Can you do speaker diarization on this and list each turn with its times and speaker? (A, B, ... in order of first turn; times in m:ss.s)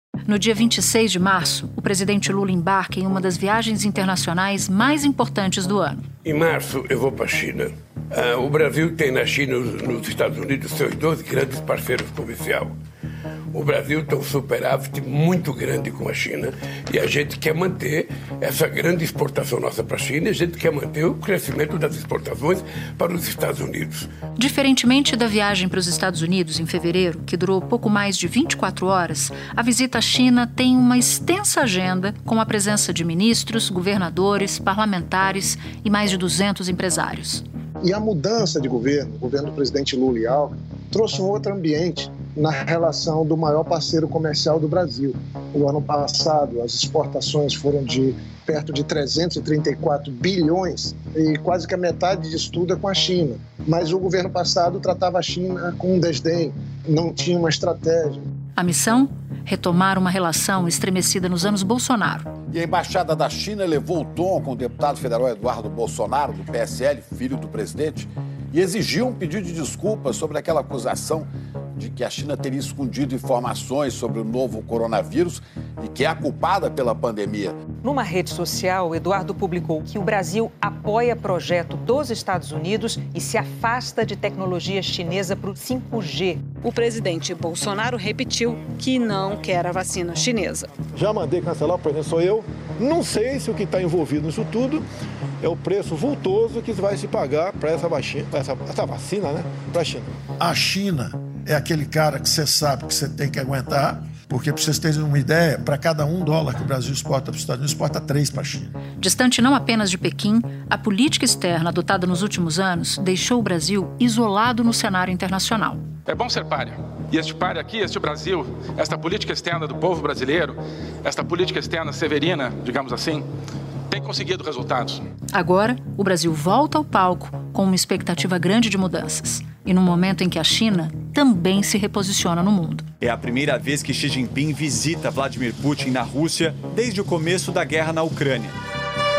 0:00.3-0:06.1 A
0:06.2-0:12.8 B
0:13.5-0:24.1 B
0:24.4-0:37.4 A
0:37.8-0:58.2 C
0:58.6-1:02.3 A
1:02.5-1:17.6 D
1:17.8-1:26.6 E
1:26.6-1:30.7 F
1:31.0-1:34.8 G
1:35.4-1:40.0 G
1:40.4-1:48.7 H
1:49.0-1:55.8 A
1:56.0-2:03.3 I
2:03.9-2:05.0 I
2:05.3-2:12.9 A
2:13.0-2:18.5 J